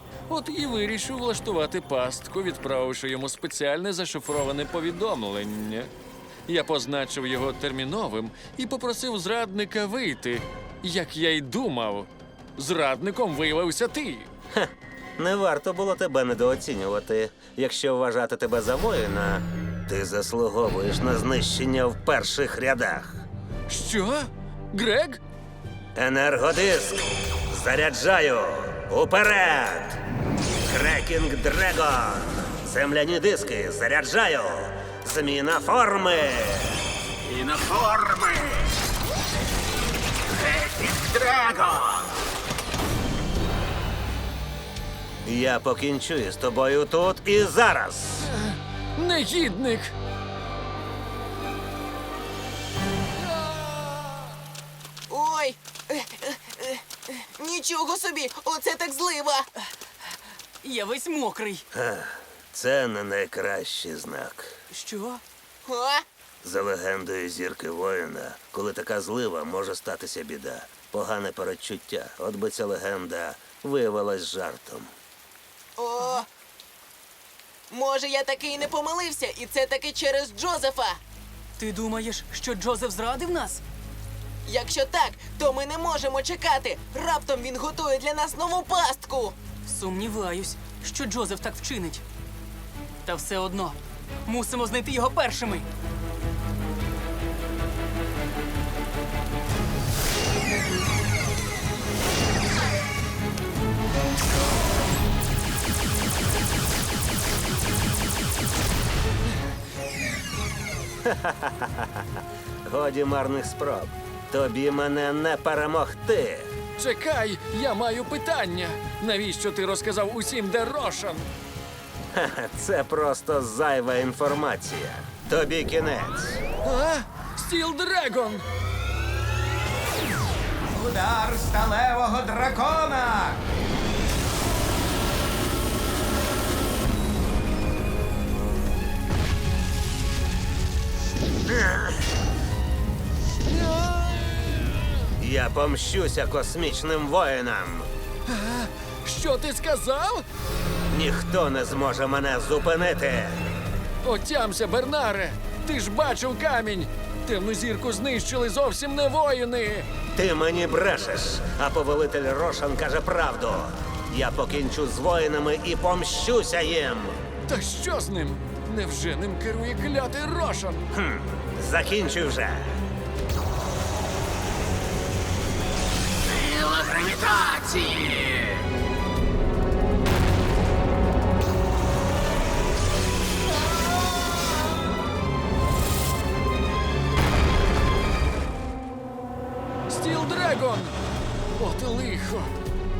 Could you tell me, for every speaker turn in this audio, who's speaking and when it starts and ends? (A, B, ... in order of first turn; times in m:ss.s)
0:00.3-0:05.9 A
0:06.5-0:14.3 A
0:14.5-0:23.2 B
0:23.7-0:25.2 A
0:26.0-0:30.0 B
0:30.7-0:36.8 B
0:45.3-0:48.3 B
0:48.4-0:49.9 A
0:55.1-0:59.5 C
1:00.6-1:01.6 D
1:01.7-1:04.6 B
1:04.7-1:05.2 D
1:05.6-1:06.0 C
1:06.4-1:14.9 B
1:15.8-1:16.3 C
1:17.7-1:21.0 C
1:21.6-1:23.6 D
1:24.5-1:29.4 C
1:29.7-1:32.0 D
1:33.0-1:35.7 D
1:51.0-1:52.1 B
1:52.7-1:56.5 B
1:56.8-2:01.3 A
2:02.1-2:06.4 B
2:06.6-2:08.4 A
2:10.7-2:13.4 E
2:21.5-2:22.0 B
2:25.2-2:27.9 B
2:28.3-2:30.2 A
2:30.9-2:33.4 B
2:34.0-2:39.9 A
2:40.2-2:47.2 B
2:47.5-2:50.9 A
2:50.9-2:52.7 B
3:09.9-3:10.9 A
3:11.6-3:12.5 A